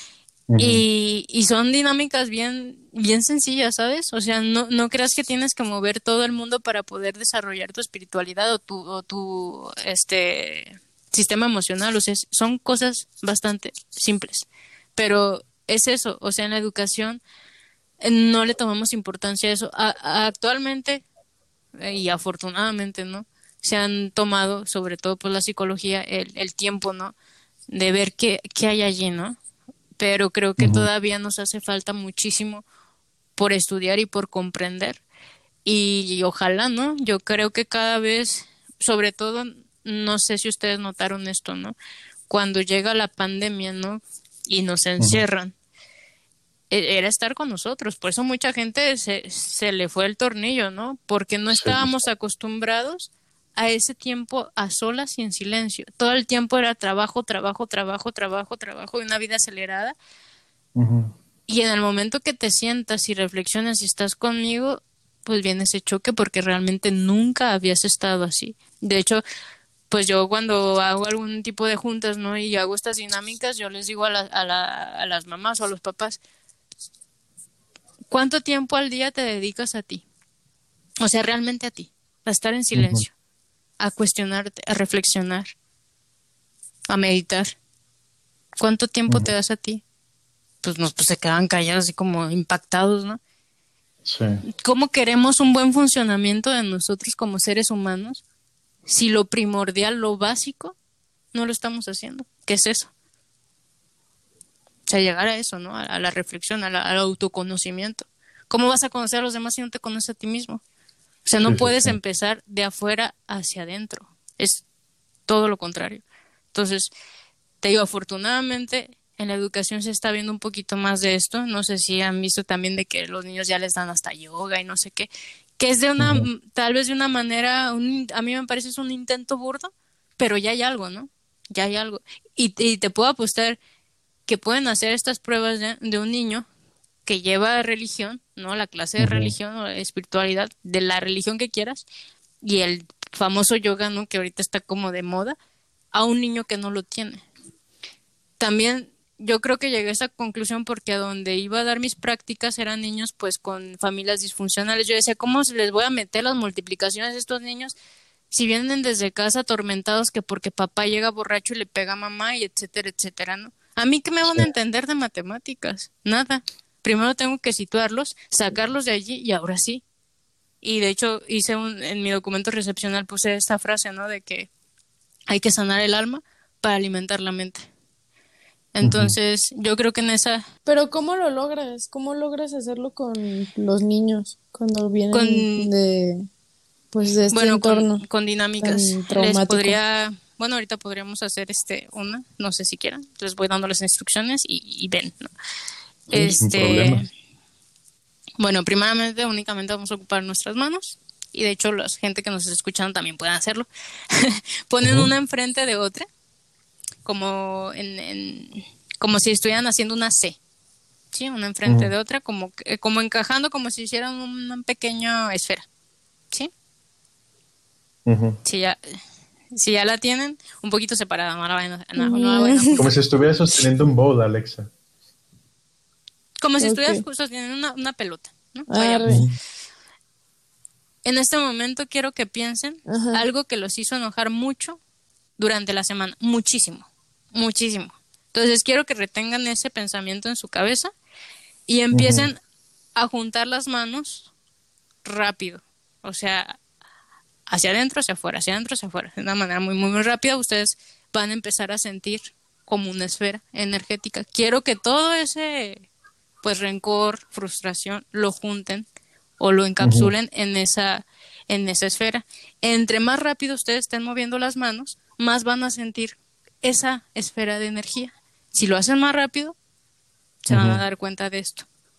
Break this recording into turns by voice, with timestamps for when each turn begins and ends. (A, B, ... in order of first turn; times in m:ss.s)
0:00.5-0:00.8 A
0:00.6-0:17.2 B
0:18.0-0:21.0 B
0:21.8-0:27.2 B
0:27.7-0:29.4 B
0:30.0-0:32.6 B
0:30.6-0:30.9 A
0:33.4-0:35.0 B
0:35.6-0:41.8 B
0:42.3-0:45.5 B
0:45.0-0:45.2 A
0:46.7-1:00.0 B
0:51.5-0:51.9 A
1:00.8-1:01.2 A
1:01.5-1:09.2 B
1:09.9-1:16.2 B
1:18.1-1:20.0 B
1:21.0-1:23.1 B
1:22.8-1:23.0 A
1:23.8-1:25.5 B
1:26.9-1:27.6 B
1:28.6-1:29.8 B
1:30.6-1:33.2 B
1:34.0-1:34.4 A
1:34.6-1:38.2 B
1:38.9-1:40.8 B
1:41.3-1:42.9 B
1:44.9-1:50.6 B
1:51.2-1:54.6 B
1:51.4-1:52.0 A
1:55.3-1:56.9 B
1:57.6-2:13.6 B
2:06.0-2:06.3 A
2:14.3-2:16.5 B
2:17.1-2:21.9 B
2:19.0-2:19.3 A
2:22.4-2:25.4 B
2:25.9-2:27.2 B
2:28.4-2:37.7 B
2:38.3-2:49.8 B
2:50.6-2:54.5 B
2:55.3-2:57.7 B
2:58.7-3:00.5 B
2:58.8-2:59.2 A
3:00.7-3:06.3 C
3:05.1-3:05.7 B
3:06.9-3:08.0 C
3:07.3-3:15.3 B
3:08.6-3:09.8 C
3:16.1-3:17.1 A
3:16.1-3:17.0 B
3:18.4-3:26.1 B
3:24.8-3:25.1 A
3:27.0-3:30.4 B
3:31.1-3:35.7 B
3:31.7-3:31.9 A
3:38.1-3:38.4 A
3:38.4-3:38.8 B
3:39.5-3:42.9 B
3:42.0-3:42.8 C
3:42.8-3:44.7 A
3:46.4-3:49.1 B
3:46.6-3:47.0 C
3:48.7-3:49.2 C
3:49.1-3:49.4 A
3:51.0-3:54.8 B
3:52.9-3:53.2 C
3:55.4-4:00.9 B
4:01.7-4:02.4 B
4:01.9-4:02.3 A
4:03.0-4:04.3 B
4:05.0-4:06.6 B
4:07.5-4:15.9 B
4:16.4-4:18.9 B
4:19.4-4:29.6 B
4:19.8-4:20.1 A
4:30.4-4:31.7 B
4:30.5-4:30.8 A